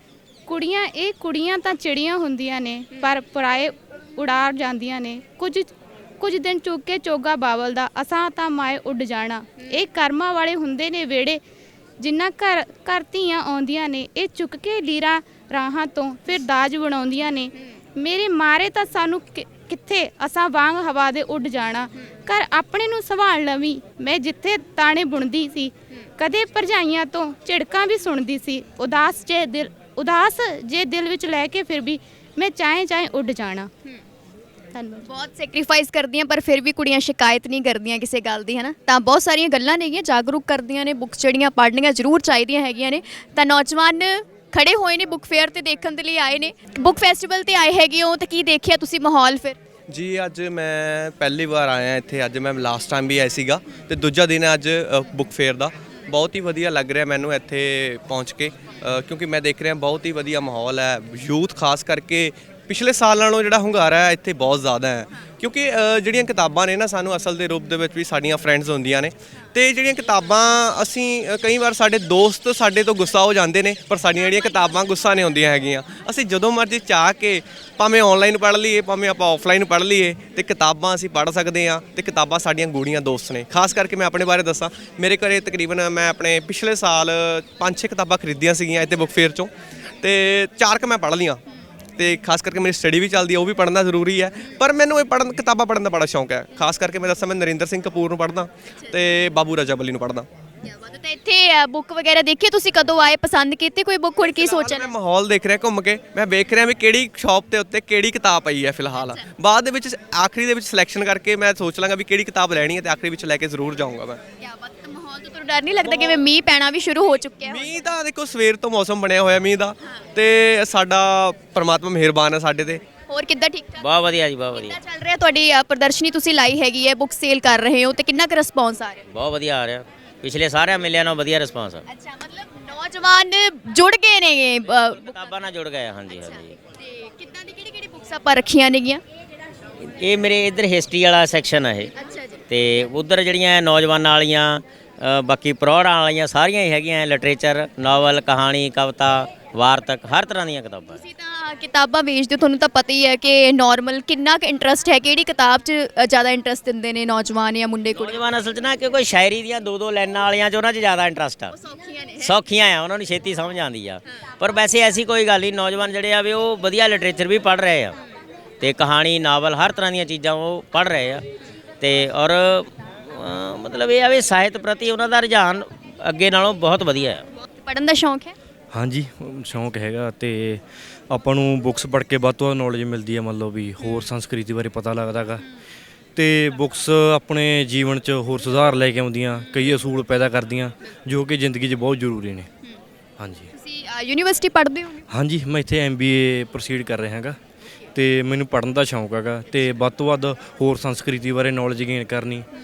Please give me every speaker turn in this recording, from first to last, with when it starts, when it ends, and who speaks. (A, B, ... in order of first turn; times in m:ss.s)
0:00.5-0:11.4 A
0:12.0-0:33.7 A
0:34.8-0:35.1 A
0:35.1-0:49.6 B
0:49.9-1:29.5 C
1:30.0-1:31.4 C
1:32.0-1:38.5 C
1:39.1-1:40.2 C
1:40.6-1:44.9 B
1:44.6-1:54.2 C
1:49.0-1:49.2 B
1:54.4-1:57.8 B
1:55.8-1:56.2 D
1:57.5-2:02.8 C
2:03.1-2:03.9 B
2:03.8-2:04.8 D
2:04.5-2:09.0 B
2:09.1-2:11.8 D
2:11.9-2:15.3 B
2:15.0-2:16.6 D
2:16.1-2:19.0 B
2:20.0-2:21.9 D
2:22.0-2:22.4 B
2:22.5-2:31.0 D
2:30.9-2:38.2 B
2:38.0-2:41.5 D
2:41.5-2:42.4 B
2:42.2-2:48.0 D
2:48.6-2:51.2 D
2:51.8-2:57.2 D
2:57.4-2:58.4 B
2:58.7-3:05.4 E
3:03.8-3:04.1 B
3:06.2-3:12.5 E
3:13.2-3:13.5 E
3:13.5-3:15.0 B
3:15.1-3:17.4 E
3:18.0-3:22.4 E